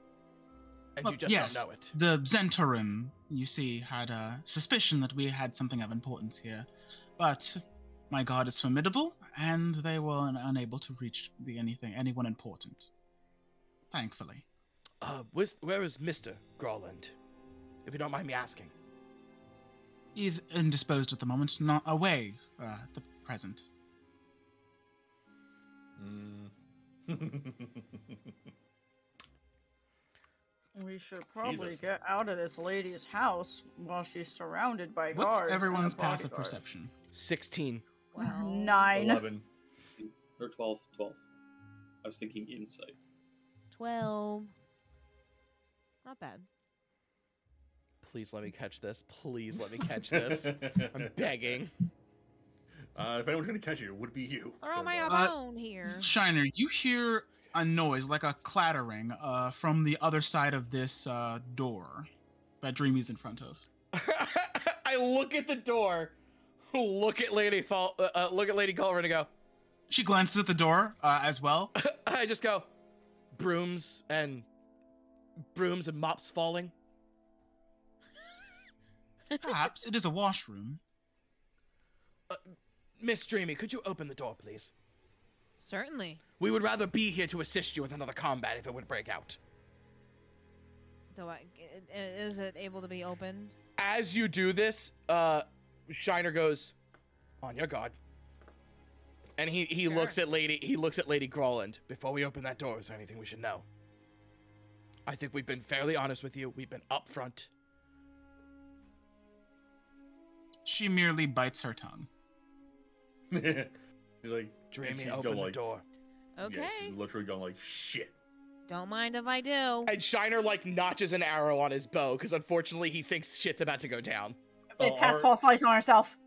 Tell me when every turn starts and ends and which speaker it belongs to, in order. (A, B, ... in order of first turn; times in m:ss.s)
0:01.0-0:01.9 A
0:01.0-0:06.7 B
0:07.2-0:12.9 B
0:13.9-0:14.4 B
0:15.0-0:17.2 A
0:17.8-0:18.7 A
0:20.1-0:23.7 B
0:26.0-0:26.5 C
0:27.1-0:28.3 C
0:30.8-0:36.6 D
0:31.4-0:31.8 C
0:35.1-0:36.9 B
0:37.1-0:37.8 A
0:38.1-0:38.9 E
0:38.2-0:39.3 D
0:38.9-0:39.5 C
0:40.0-0:41.2 F
0:42.0-0:43.0 F
0:43.7-0:44.5 E
0:46.0-0:46.5 E
0:48.0-0:51.7 A
0:50.1-0:51.1 C
0:53.0-0:55.2 C
0:54.6-0:56.1 E
0:55.1-0:55.4 B
0:55.9-1:02.1 B
1:02.6-1:03.6 B
1:03.9-1:06.2 A
1:06.7-1:09.3 A
1:09.9-1:11.7 B
1:11.8-1:12.7 A
1:13.3-1:14.5 A
1:15.5-1:16.7 A
1:19.4-1:20.8 B
1:23.0-1:24.7 A
1:25.6-1:26.2 E
1:26.4-1:29.4 A
1:31.1-1:33.6 E
1:33.8-1:36.7 A
1:37.4-1:38.0 A
1:39.4-1:43.7 A
1:39.8-1:40.2 E
1:45.1-1:47.5 A
1:50.6-1:52.1 B
1:53.3-1:55.6 C
1:54.7-1:55.8 A
1:56.4-1:57.0 E
1:56.4-1:58.2 C
1:58.7-1:59.9 E
1:59.9-2:04.4 A
2:04.8-2:06.2 D
2:04.8-2:05.3 C